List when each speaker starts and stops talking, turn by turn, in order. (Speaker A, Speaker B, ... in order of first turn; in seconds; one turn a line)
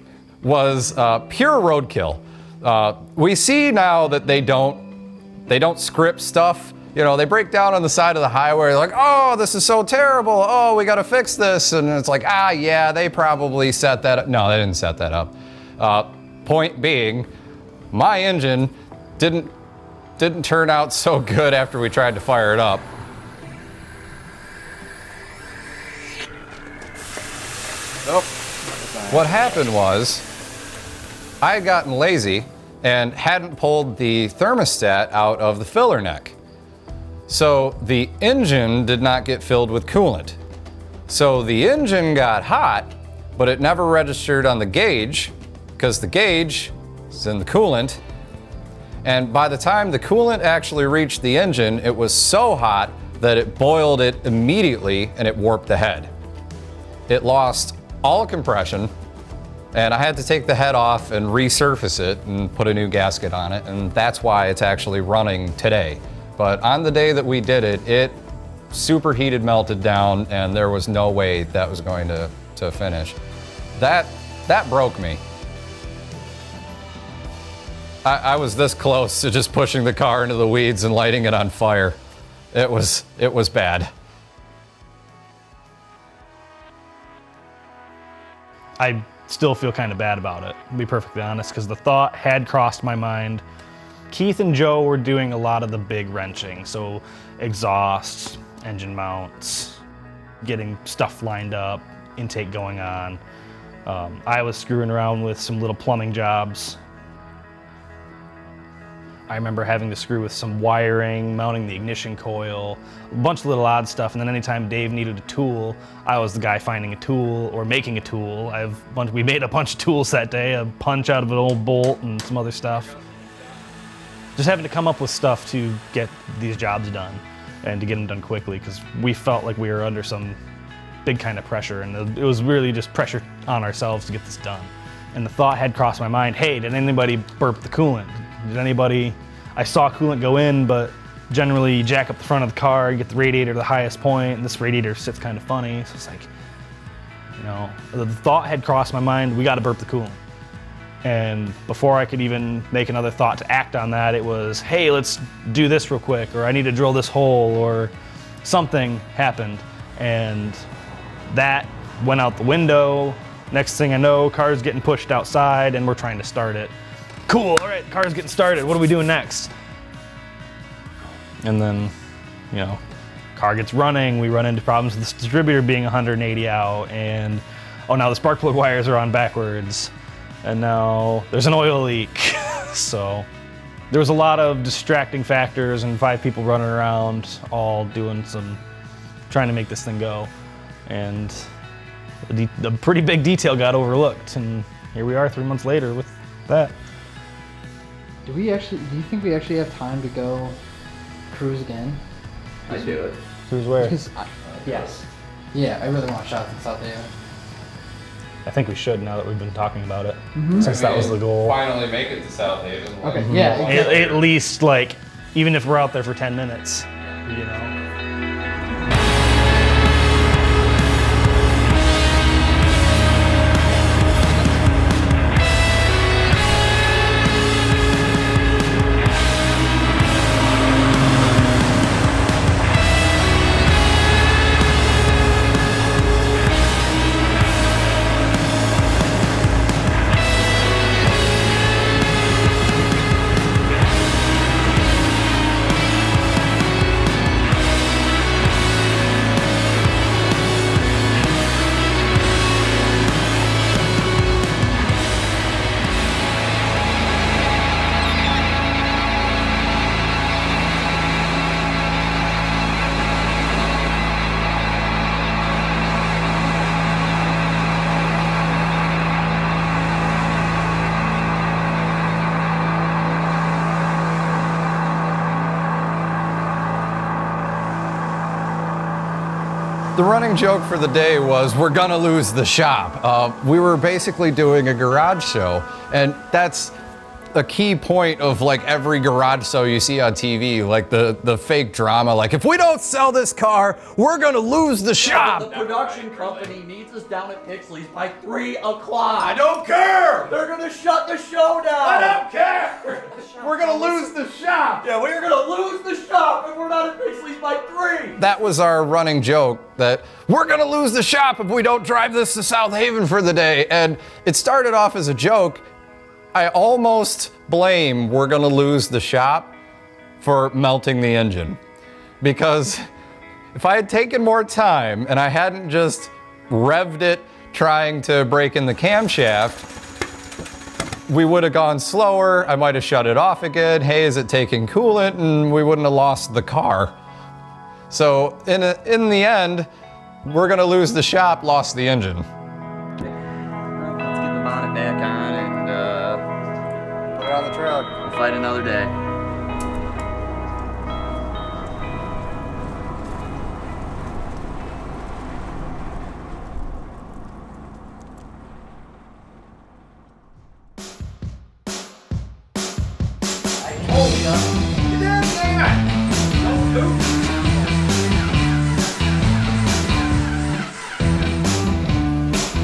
Speaker A: 0.4-4.9
Speaker A: 5.5-17.3
Speaker A: 17.9-19.5
Speaker A: 20.2-22.9
Speaker A: 29.1-30.2
Speaker A: 31.4-36.4
Speaker A: 37.3-40.4
Speaker A: 41.1-48.0
Speaker A: 49.0-56.1
Speaker A: 57.1-58.9
Speaker A: 59.7-68.2
Speaker A: 68.7-73.2
Speaker A: 73.8-75.2
Speaker A: 78.0-82.0
Speaker A: 82.5-83.9
Speaker B: 88.8-93.4
Speaker B: 94.1-99.8
Speaker B: 100.4-103.2
Speaker B: 103.9-106.8
Speaker B: 109.3-122.9
Speaker B: 124.4-130.4
Speaker B: 131.1-146.3
Speaker B: 147.4-150.2
Speaker B: 151.0-157.9
Speaker B: 158.4-160.6
Speaker B: 161.3-166.7
Speaker B: 167.3-169.5
Speaker B: 171.4-171.9
Speaker B: 172.5-172.8
Speaker B: 173.4-179.9
Speaker B: 180.4-183.3
Speaker B: 183.9-188.6
Speaker B: 189.3-190.3
Speaker B: 190.9-191.5
Speaker B: 192.3-196.7
Speaker C: 198.3-200.6
Speaker C: 201.3-202.0
Speaker C: 202.7-202.9
Speaker D: 202.7-203.1
Speaker B: 203.5-204.0
Speaker C: 203.8-205.0
Speaker C: 205.5-207.1
Speaker B: 208.4-211.6
Speaker C: 210.3-210.7
Speaker A: 210.6-214.2
Speaker C: 213.0-213.9
Speaker B: 213.2-217.7
Speaker A: 279.9-286.8
Speaker A: 287.4-296.3
Speaker D: 295.0-299.5
Speaker A: 299.2-300.3
Speaker D: 300.2-302.3
Speaker A: 301.8-304.8
Speaker D: 302.8-304.1
Speaker D: 304.8-308.2
Speaker A: 308.2-315.7
Speaker A: 316.3-319.5
Speaker A: 320.2-321.6
Speaker A: 322.2-322.9
Speaker A: 323.5-329.7
Speaker A: 331.1-336.9
Speaker A: 337.9-339.7
Speaker A: 340.3-342.2
Speaker D: 343.7-346.2
Speaker A: 347.1-347.9
Speaker D: 348.0-348.9
Speaker D: 363.7-364.2
Speaker A: 364.9-365.8
Speaker A: 366.6-367.0